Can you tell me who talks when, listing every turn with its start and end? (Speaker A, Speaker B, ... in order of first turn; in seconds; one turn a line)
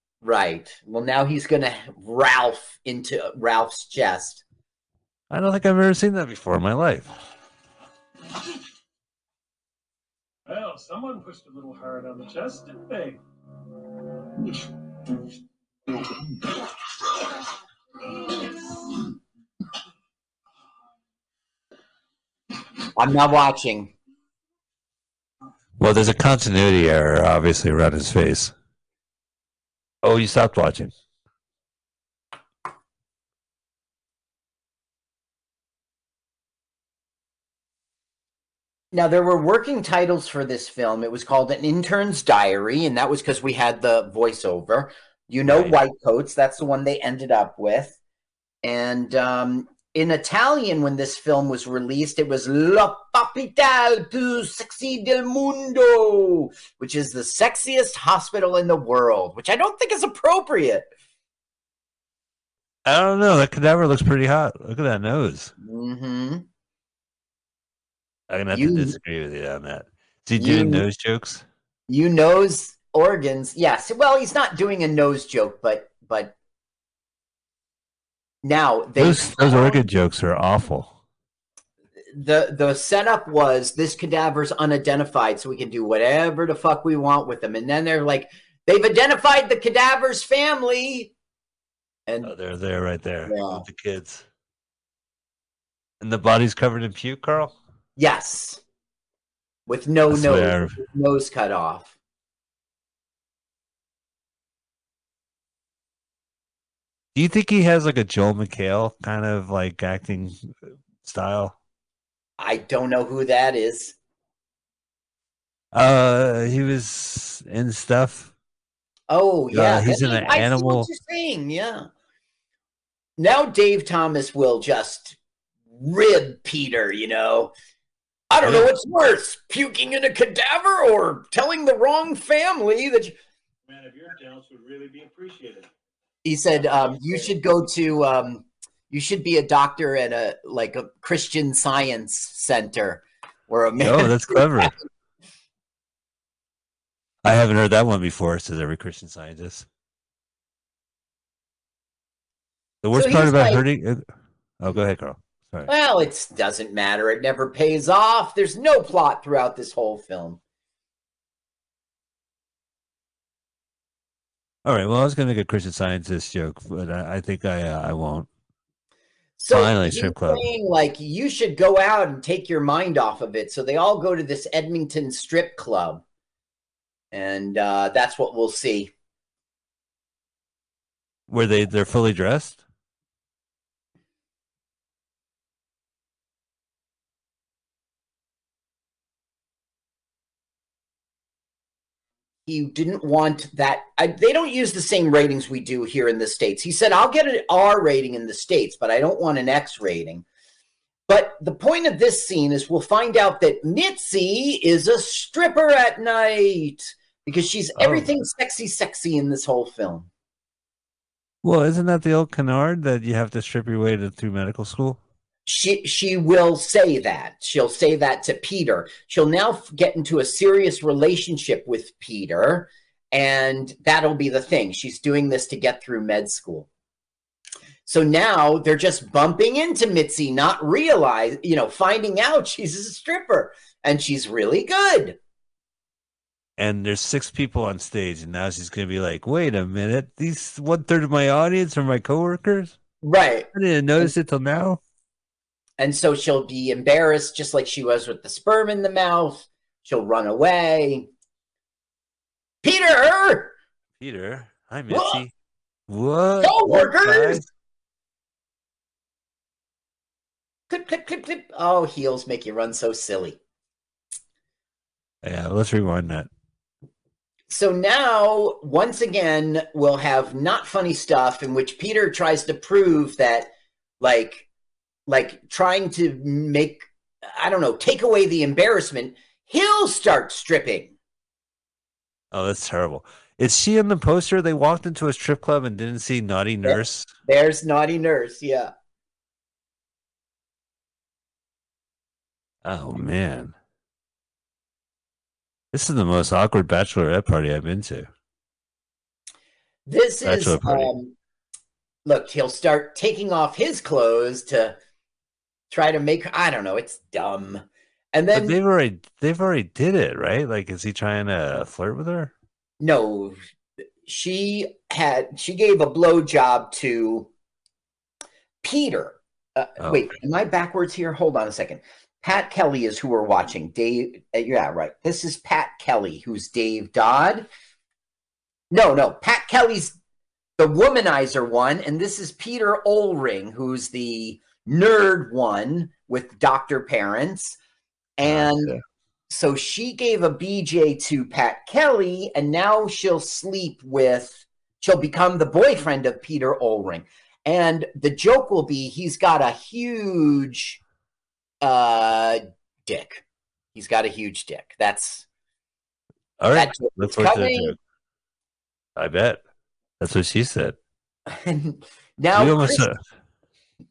Speaker A: 0.2-4.4
Speaker B: 5.3-7.1
Speaker C: 10.4-13.2
Speaker A: 22.9-23.9
Speaker B: 25.8-28.5
Speaker B: 30.0-30.9
Speaker A: 38.9-48.0
Speaker B: 45.5-45.8
Speaker A: 48.6-60.9
Speaker B: 62.9-65.5
Speaker A: 65.6-66.5
Speaker B: 68.3-71.4
Speaker A: 68.5-68.9
Speaker A: 70.4-70.8
Speaker A: 71.9-76.3
Speaker A: 78.4-79.8
Speaker B: 79.0-80.9
Speaker A: 82.1-91.1
Speaker A: 92.1-92.3
Speaker B: 92.2-94.2
Speaker A: 93.2-93.6
Speaker B: 96.0-97.5
Speaker A: 98.0-98.6
Speaker A: 99.7-101.9
Speaker B: 100.1-100.8
Speaker B: 107.1-111.5
Speaker A: 112.4-114.0
Speaker B: 115.7-118.3
Speaker A: 119.1-121.9
Speaker B: 119.5-120.9
Speaker A: 123.2-125.2
Speaker A: 125.7-127.5
Speaker A: 128.3-133.2
Speaker B: 128.4-128.7
Speaker C: 133.7-135.7
Speaker A: 136.2-144.7
Speaker B: 143.8-144.8
Speaker B: 147.2-149.7
Speaker B: 152.8-154.0
Speaker A: 152.9-153.6
Speaker B: 154.6-155.7
Speaker A: 155.7-160.4
Speaker B: 164.6-168.3
Speaker A: 169.4-176.0
Speaker B: 169.5-170.4
Speaker A: 177.1-178.9
Speaker B: 181.3-182.6
Speaker A: 192.4-200.2
Speaker A: 201.1-210.1
Speaker B: 207.8-208.1
Speaker B: 211.4-215.0
Speaker A: 215.4-226.7
Speaker A: 227.8-235.2
Speaker B: 236.6-242.8
Speaker A: 243.0-243.5
Speaker B: 243.5-244.8
Speaker A: 245.8-251.1
Speaker A: 252.6-253.5
Speaker B: 254.0-255.3
Speaker A: 254.9-255.2
Speaker B: 255.9-257.4
Speaker A: 256.4-257.4
Speaker A: 260.7-263.4
Speaker B: 265.2-266.3
Speaker A: 267.5-274.5
Speaker A: 275.1-280.9
Speaker B: 282.3-287.1
Speaker A: 286.6-288.7
Speaker B: 292.6-293.5
Speaker B: 295.7-298.1
Speaker A: 299.9-301.1
Speaker B: 300.2-300.9
Speaker A: 302.0-304.8
Speaker A: 305.7-308.6
Speaker B: 308.3-312.3
Speaker A: 312.8-313.4
Speaker A: 314.0-317.3
Speaker A: 318.6-327.5
Speaker B: 319.8-320.1
Speaker A: 328.7-330.0
Speaker A: 330.6-337.6
Speaker A: 338.2-338.7
Speaker B: 338.2-338.8
Speaker A: 339.3-350.8
Speaker A: 351.6-353.2
Speaker A: 353.7-355.2
Speaker B: 356.4-357.8
Speaker A: 356.5-357.8
Speaker B: 358.9-359.4
Speaker B: 360.0-360.8
Speaker A: 361.3-362.9
Speaker B: 362.3-363.0